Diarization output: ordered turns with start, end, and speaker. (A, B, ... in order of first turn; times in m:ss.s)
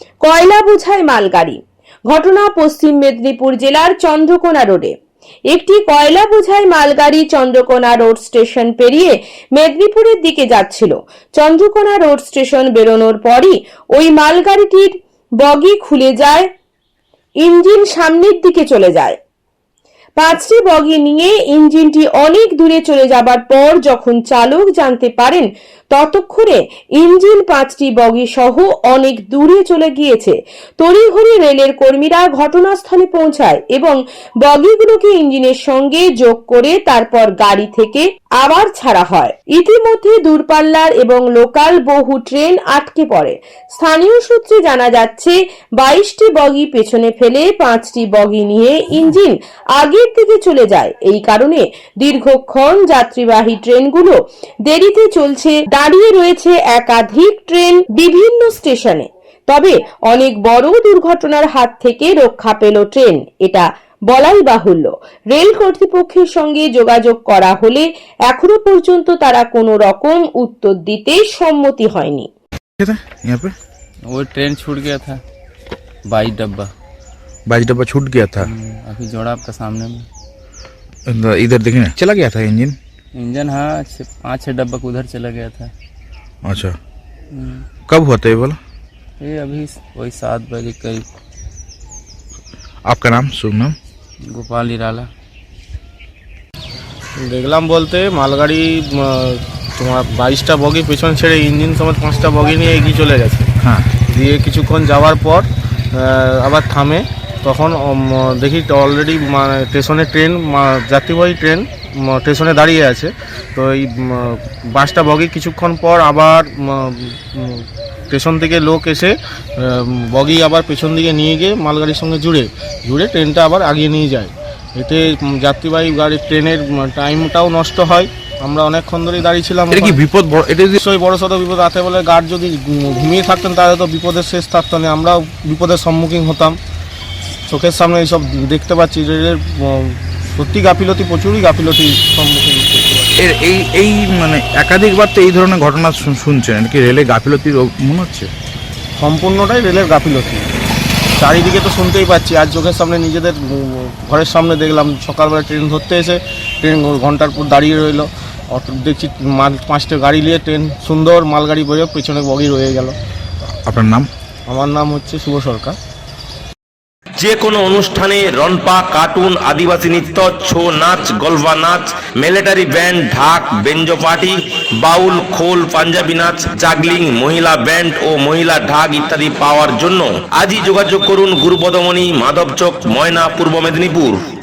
0:00.2-0:04.9 A
0:05.5-0:16.5 A
0:17.4-0:19.2 A
0:20.2-1:12.3 A
1:12.8-1:13.6 B
1:14.1-1:15.2 C
1:16.1-1:16.7 C
1:17.5-1:18.5 B
1:18.4-1:20.1 C
1:21.1-1:22.8 B
1:23.2-1:25.7 C
1:26.4-1:26.8 B
1:27.3-1:27.7 C
1:27.9-1:28.6 B
1:29.2-1:31.0 C
1:32.9-1:33.8 B
1:34.3-1:35.1 C
1:37.2-1:43.5 D
1:43.6-1:43.9 B
1:44.1-2:10.0 D
2:09.7-2:10.8 B
2:10.8-2:16.6 D
2:17.5-2:23.1 D
2:23.2-2:28.3 B
2:29.0-2:30.5 D
2:31.2-2:43.0 D
2:43.7-2:44.1 B
2:44.5-2:45.8 D
2:47.2-3:04.2 E